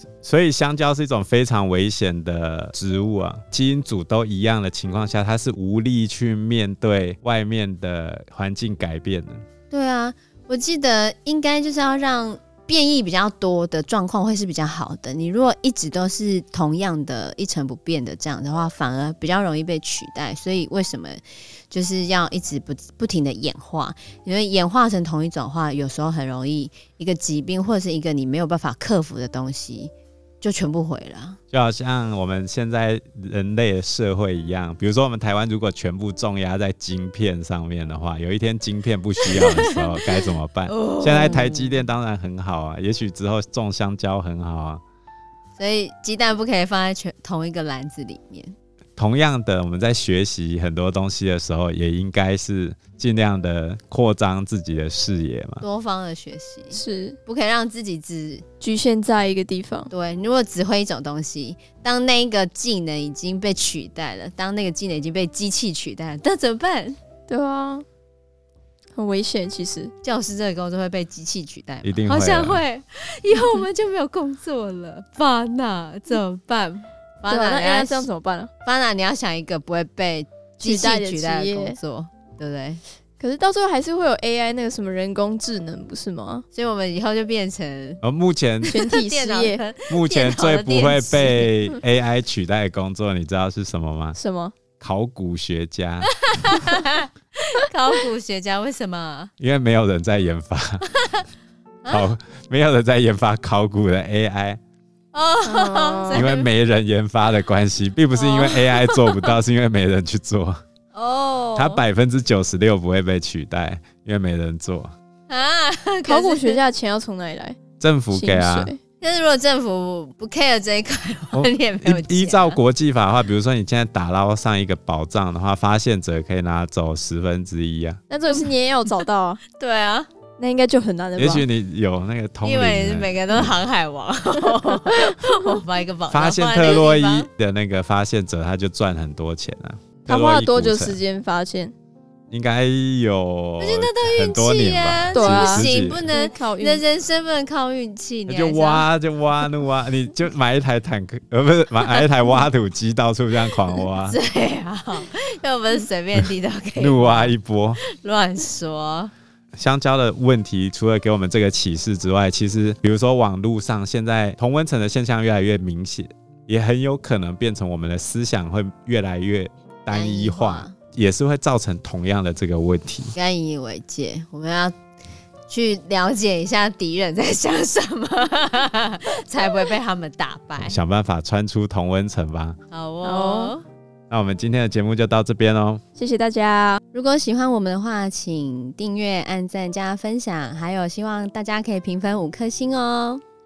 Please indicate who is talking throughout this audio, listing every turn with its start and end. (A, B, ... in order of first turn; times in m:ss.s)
0:00.2-0:09.4 A
0:09.7-0:31.4 B
0:31.5-0:44.8 A
0:39.2-0:41.8 B
0:45.6-0:48.5 B
0:49.0-0:55.6 A
0:55.6-0:58.4 B
0:56.7-0:57.2 C
0:58.6-0:59.9 C
0:59.9-1:07.0 B
1:07.3-1:07.8 C
1:09.0-1:09.9 C
1:10.0-1:18.1 B
1:11.8-1:12.6 A
1:17.3-1:18.5 C
1:18.6-1:22.8 B
1:20.6-1:21.8 C
1:23.2-1:26.4 C
1:26.5-1:28.0 B
1:28.0-1:28.8 A
1:28.6-1:31.5 B
1:28.7-1:29.6 C
1:29.9-1:34.2 A
1:34.2-1:34.5 C
1:34.8-1:36.1 A
1:36.0-1:39.3 B
1:39.4-1:40.8 A
1:40.9-1:41.2 B
1:41.8-1:42.1 B
1:41.9-1:44.6 A
1:45.1-1:46.5 B
1:45.4-1:46.2 C
1:46.1-1:50.6 A
1:48.1-1:49.3 B
1:50.9-1:51.8 B
1:51.6-1:54.9 A
1:55.3-1:56.6 B
1:56.0-1:57.6 C
1:57.8-1:58.7 A
1:58.1-1:58.8 C
1:59.0-2:02.6 B
2:01.3-2:08.0 A
2:08.1-2:09.4 C
2:09.5-2:10.1 B
2:10.4-2:11.4 C
2:11.2-2:13.5 A
2:12.4-2:17.3 B
2:16.1-2:21.0 A
2:20.1-2:21.7 C
2:22.3-2:26.1 A
2:23.6-2:28.9 B
2:25.1-2:26.8 C
2:28.3-2:34.2 A
2:34.0-2:39.1 B
2:36.8-2:37.8 A
2:39.6-2:53.1 A
2:49.9-2:50.8 B
2:53.2-2:54.7 B
2:55.5-3:00.8 B
3:00.6-3:02.6 A
3:02.7-3:03.6 B
3:03.0-3:03.5 C
3:04.1-3:05.8 A
3:06.0-3:06.8 C
3:06.9-3:13.2 B